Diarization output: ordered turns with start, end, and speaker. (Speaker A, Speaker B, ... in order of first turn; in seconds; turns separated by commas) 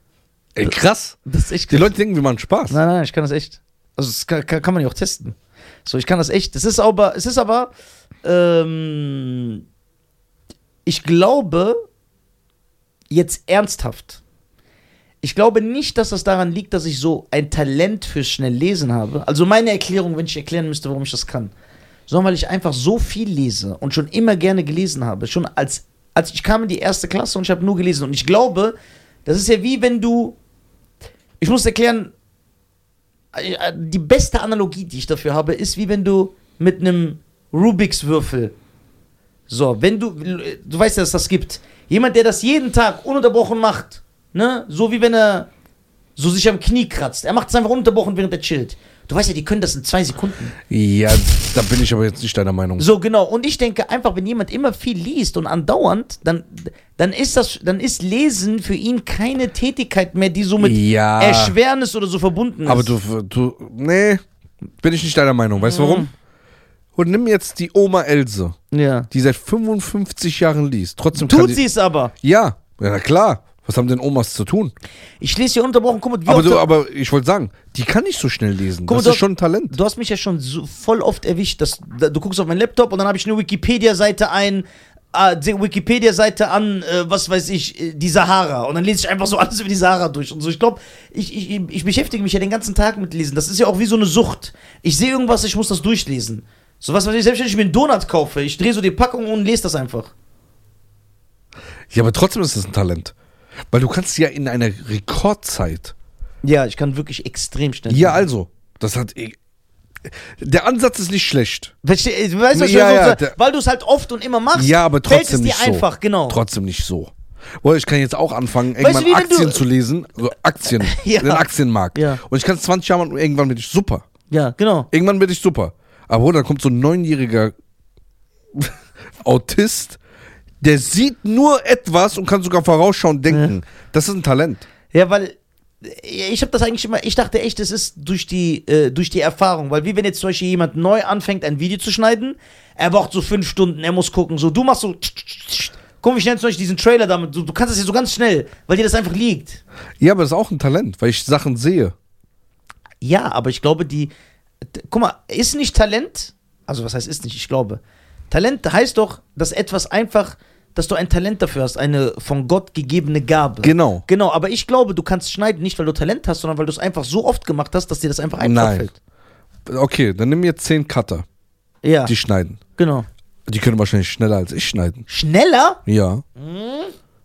Speaker A: 0.6-1.2, Speaker B: 1.3-1.9, Speaker A: 1.7-2.8, Speaker B: 2.7-7.7, Speaker B: 8.2-9.6, Speaker B: 10.8-11.8, Speaker B: 13.1-14.2, Speaker B: 15.2-21.5, Speaker B: 22.1-28.8, Speaker B: 29.3-30.4, Speaker B: 31.4-32.1, Speaker B: 33.3-38.5, Speaker B: 39.5-45.5, Speaker B: 46.2-50.5, Speaker A: 50.7-52.9, Speaker B: 52.8-63.0, Speaker A: 60.6-61.6, Speaker A: 62.7-64.2, Speaker A: 64.8-66.1, Speaker B: 65.6-66.1, Speaker A: 67.0-68.6, Speaker B: 68.7-69.1, Speaker A: 69.1-71.6, Speaker B: 71.1-72.1, Speaker A: 72.2-74.7, Speaker B: 75.2-76.7, Speaker A: 76.3-79.8, Speaker B: 78.9-100.1, Speaker A: 101.9-103.1, Speaker A: 103.7-105.9, Speaker B: 106.4-108.2, Speaker A: 107.9-109.4, Speaker A: 110.0-111.7, Speaker B: 111.8-116.4, Speaker A: 112.5-113.4, Speaker A: 114.5-124.0, Speaker B: 118.8-119.6, Speaker B: 120.8-122.2, Speaker B: 124.3-124.9, Speaker A: 124.9-127.5, Speaker A: 128.6-130.0, Speaker A: 130.6-134.7, Speaker B: 134.9-149.6, Speaker A: 150.0-151.9, Speaker B: 153.0-154.1, Speaker B: 154.7-168.9, Speaker A: 163.6-164.1, Speaker A: 168.4-168.9, Speaker A: 169.7-171.3, Speaker B: 171.8-172.1, Speaker A: 172.1-172.6, Speaker B: 172.8-173.1, Speaker A: 173.5-175.1, Speaker B: 175.1-175.8, Speaker A: 175.9-176.2, Speaker B: 176.4-176.9